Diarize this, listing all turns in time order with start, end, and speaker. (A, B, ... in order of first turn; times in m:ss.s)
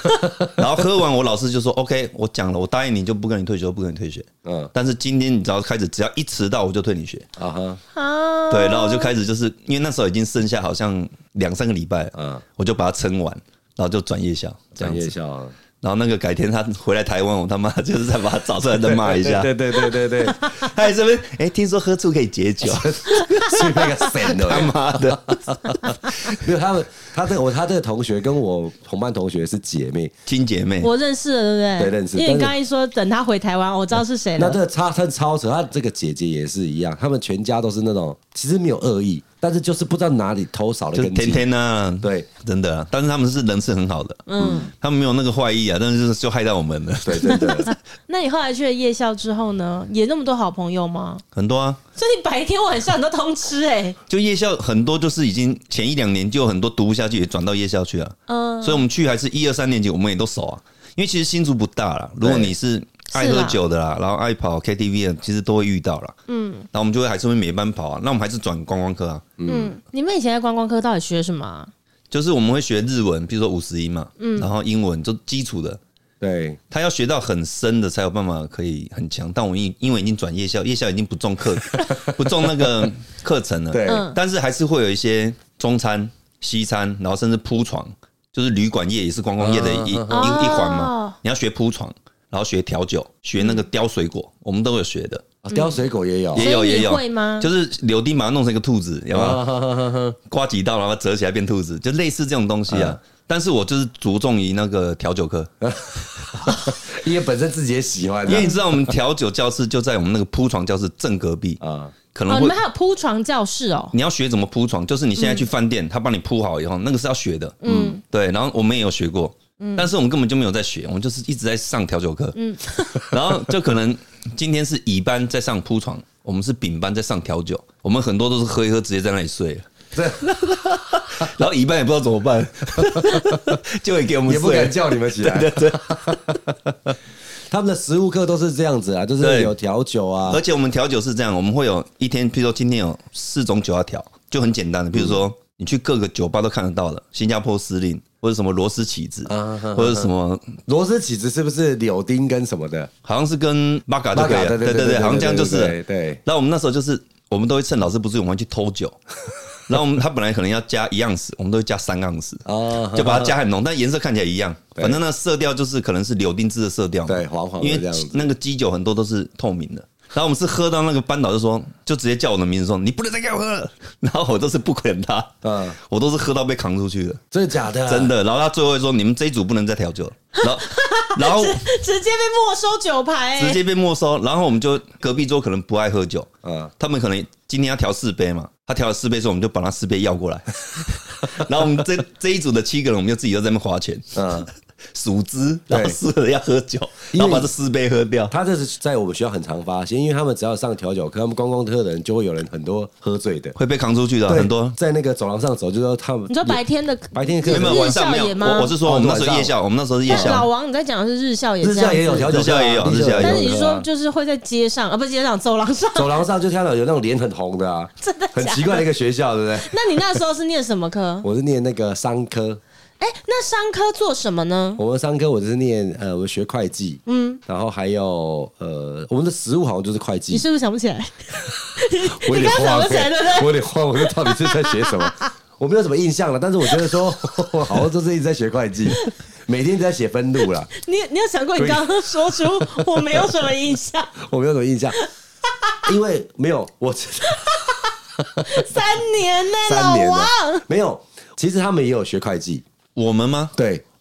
0:00.4-0:07.3 A
0:04.4-0:04.7 B
0:07.4-0:07.8 B
0:07.9-0:09.1 C
0:08.5-0:15.1 A
0:12.2-0:12.4 B
0:14.8-0:15.5 B
0:15.8-0:26.4 A
0:18.8-0:20.4 B
0:22.6-0:25.6 B
0:26.2-0:30.1 B
0:30.3-0:30.9 A
0:30.8-0:34.6 C
0:31.8-0:32.5 B
0:34.4-0:41.5 B
0:40.9-0:47.7 A
0:42.0-0:42.3 B
0:44.3-0:44.7 C
0:44.4-0:44.7 B
0:47.0-0:47.7 B
0:47.4-0:51.2 C
0:51.4-0:51.8 A
0:52.0-0:54.0 C
0:54.1-1:06.2 A
0:58.3-0:58.9 C
1:02.2-1:02.5 B
1:03.1-1:03.6 C
1:06.3-1:06.7 C
1:06.7-1:09.3 A
1:09.4-1:09.8 B
1:09.5-1:11.7 C
1:12.1-1:15.8 A
1:14.2-1:14.5 C
1:16.2-1:16.6 B
1:16.7-1:35.4 A
1:21.7-1:22.7 B
1:23.7-1:24.1 B
1:23.9-1:24.2 C
1:29.4-1:30.4 B
1:30.1-1:31.2 C
1:35.4-1:36.5 B
1:35.5-1:35.8 C
1:36.3-1:39.4 A
1:36.4-1:37.5 C
1:39.1-1:40.2 B
1:40.3-1:45.5 A
1:42.7-1:43.0 B
1:45.6-1:48.5 B
1:48.3-1:51.6 A
1:51.6-1:51.9 B
1:52.1-1:52.6 A
1:52.3-1:53.9 C
1:53.9-2:02.4 A
1:55.2-1:55.5 C
1:57.6-1:58.0 C
1:57.6-1:58.0 B
1:59.6-1:59.9 C
2:02.4-2:03.1 C
2:03.0-2:16.4 A
2:09.9-2:10.3 B
2:12.9-2:13.4 B
2:14.3-2:17.0 B
2:17.5-2:20.4 B
2:19.2-2:19.5 A
2:20.3-2:30.6 A
2:24.9-2:25.2 B
2:29.3-2:30.1 B
2:30.7-2:32.9 B
2:33.0-2:39.0 A
2:34.1-2:36.2 B
2:39.7-2:57.2 A
2:42.5-2:43.4 B
2:47.1-2:48.3 B
2:55.4-2:55.8 B
2:57.3-2:58.1 B
2:57.9-3:01.6 A
3:00.4-3:03.6 C
3:03.4-3:14.4 A
3:06.4-3:06.7 B
3:14.1-3:14.5 B
3:14.9-3:18.3 A
3:15.7-3:16.0 B
3:17.1-3:17.5 B
3:18.3-3:23.6 B
3:23.6-3:24.8 A
3:24.3-3:26.6 B
3:26.3-3:28.8 C
3:27.1-3:28.0 B
3:27.5-3:30.5 A
3:28.8-3:29.5 B
3:30.1-3:30.4 B
3:30.1-3:32.3 C
3:31.6-3:33.9 B
3:32.2-3:33.4 A
3:33.2-3:36.2 C
3:35.9-3:40.0 B
3:38.0-3:38.9 C
3:39.6-3:41.3 C
3:41.2-3:42.6 B
3:43.0-3:44.8 C
3:44.8-3:50.4 B
3:47.1-3:47.4 C
3:50.3-3:55.2 C
3:52.0-4:00.7 B
4:00.7-4:04.2 C
4:01.6-4:03.3 B
4:04.2-4:05.0 B
4:05.8-4:08.8 B
4:07.3-4:07.6 C
4:08.5-4:10.6 C
4:09.6-4:12.6 B
4:13.0-4:13.6 A
4:13.6-4:13.8 B